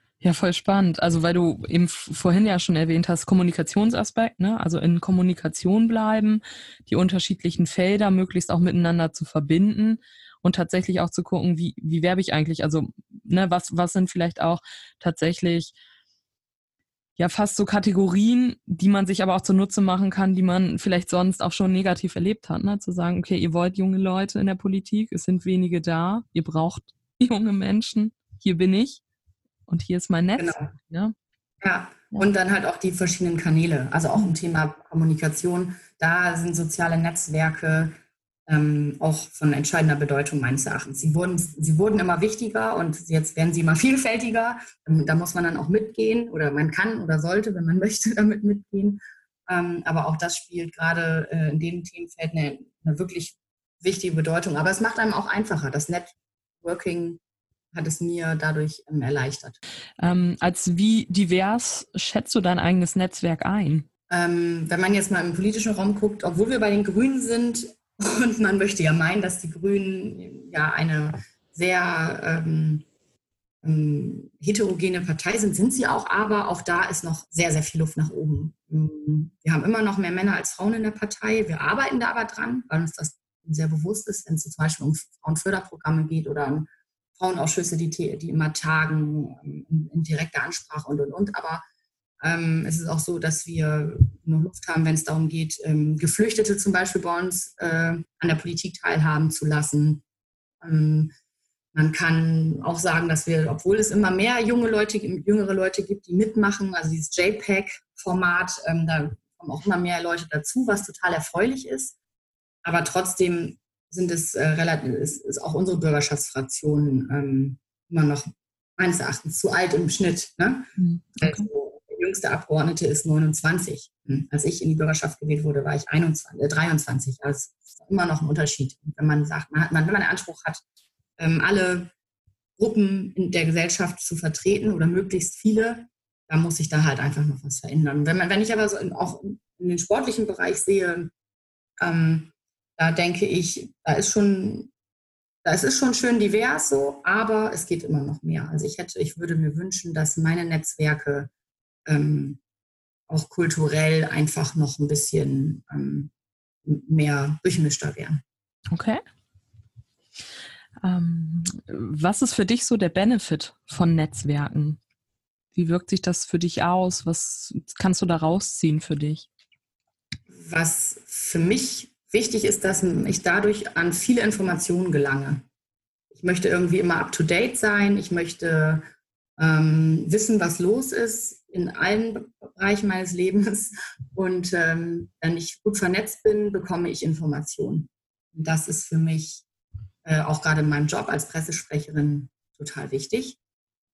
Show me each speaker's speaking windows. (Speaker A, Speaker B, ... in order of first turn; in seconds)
Speaker A: 0.2-15.8, 17.2-29.0, 29.7-31.1, 60.0-63.9, 120.8-121.5, 158.7-159.0, 160.8-164.8, 165.5-169.3
Speaker B: 30.4-30.7, 31.6-37.9, 38.5-57.2, 57.7-59.6, 64.1-72.9, 73.6-91.6, 92.2-100.0, 100.6-101.1, 101.7-112.0, 112.6-130.6, 131.2-131.9, 132.6-141.1, 141.8-144.7, 145.4-151.3, 151.9-152.4, 153.1-156.1, 156.7-158.2, 170.3-175.4, 176.1-178.8, 179.4-189.4, 190.1-193.4